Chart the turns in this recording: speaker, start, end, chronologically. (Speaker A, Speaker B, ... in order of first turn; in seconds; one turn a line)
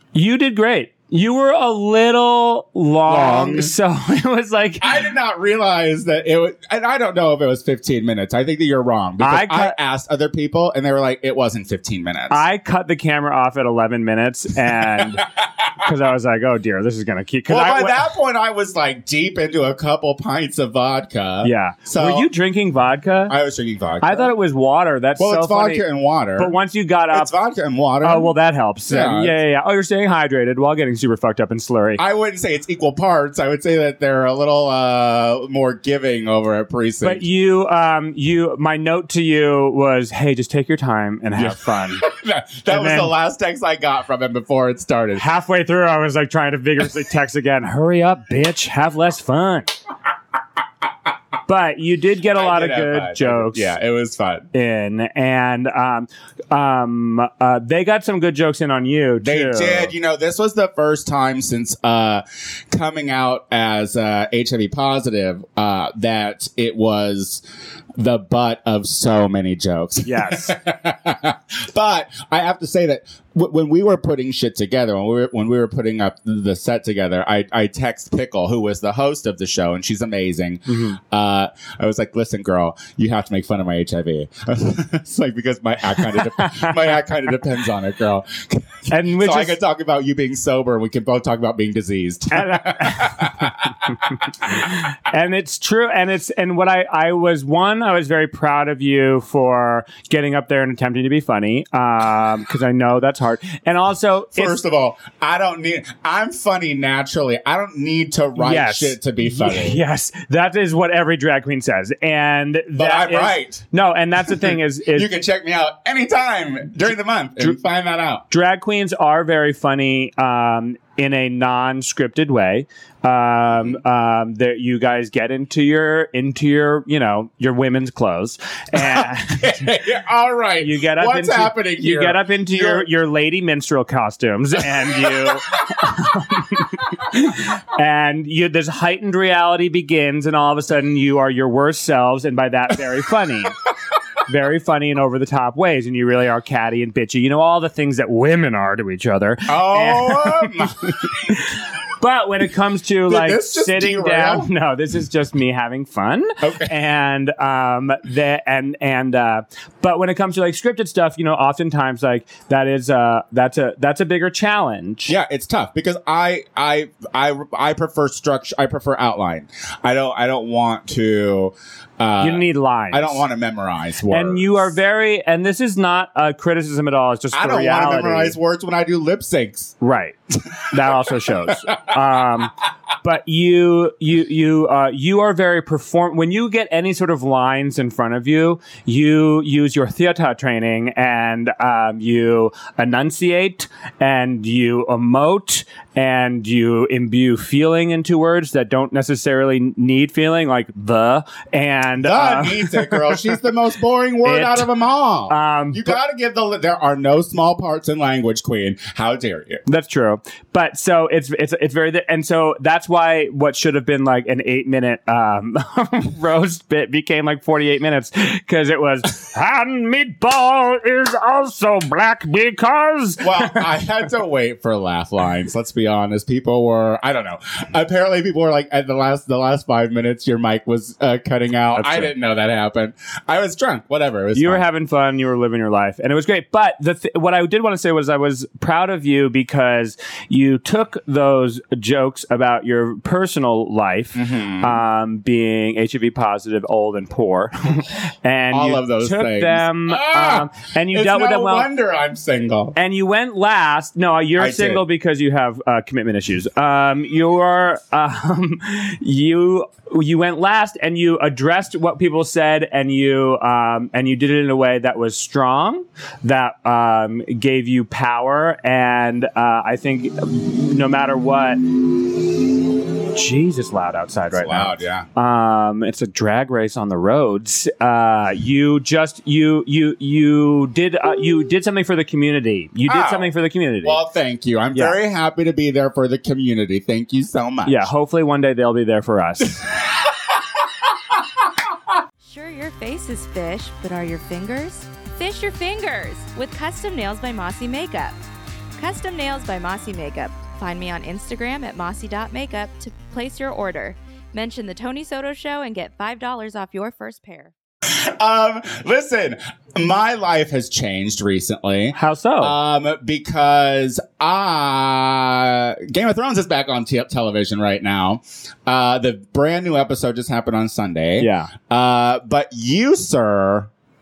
Speaker A: 0.1-5.0
Speaker B: 3.1-3.7
Speaker B: 4.8-12.4
Speaker A: 9.2-9.8
Speaker A: 12.3-18.1
Speaker B: 14.7-15.7
Speaker B: 17.5-22.3
Speaker A: 21.4-23.3
Speaker B: 23.3-24.3
Speaker A: 24.0-25.8
Speaker B: 25.2-26.5
Speaker A: 26.4-27.3
Speaker B: 27.1-28.3
Speaker A: 28.0-32.0
Speaker B: 28.9-29.4
Speaker B: 32.0-37.2
Speaker A: 37.0-42.0
Speaker B: 41.4-45.2
Speaker A: 42.7-43.1
Speaker A: 45.1-49.7
Speaker A: 51.5-53.7
Speaker B: 52.3-54.5
Speaker A: 54.5-59.9
Speaker B: 59.2-67.4
Speaker B: 68.0-94.2
Speaker A: 70.0-70.6
Speaker A: 80.7-81.0
Speaker A: 86.1-86.8
Speaker A: 88.9-89.6
Speaker A: 92.3-104.6
Speaker B: 104.3-109.8
Speaker A: 108.4-115.1
Speaker B: 112.7-113.6
Speaker B: 114.2-118.2
Speaker A: 118.3-129.7
Speaker B: 128.7-132.9
Speaker A: 130.6-143.6
Speaker B: 134.7-135.4
Speaker A: 144.2-165.1
Speaker B: 149.5-151.4
Speaker B: 153.1-154.5
Speaker B: 156.4-156.7
Speaker B: 165.1-174.7
Speaker A: 172.2-173.2
Speaker A: 174.1-178.3
Speaker B: 177.3-179.8
Speaker A: 179.8-180.2
Speaker B: 180.5-181.1
Speaker A: 180.7-203.3
Speaker B: 181.7-181.9
Speaker B: 202.0-209.6
Speaker A: 204.2-204.7
Speaker A: 205.3-206.0
Speaker A: 209.7-223.7
Speaker B: 223.2-234.6
Speaker A: 231.7-232.1
Speaker A: 234.3-251.7
Speaker B: 244.1-244.8
Speaker B: 248.5-252.8
Speaker A: 252.7-271.9
Speaker B: 254.4-254.8
Speaker A: 273.1-284.0
Speaker B: 274.3-275.1
Speaker B: 282.9-283.3
Speaker B: 283.8-287.9
Speaker A: 287.6-289.7
Speaker C: 292.2-298.1
Speaker C: 298.8-307.5
Speaker B: 307.9-323.7
Speaker A: 311.9-312.6
Speaker A: 321.2-321.5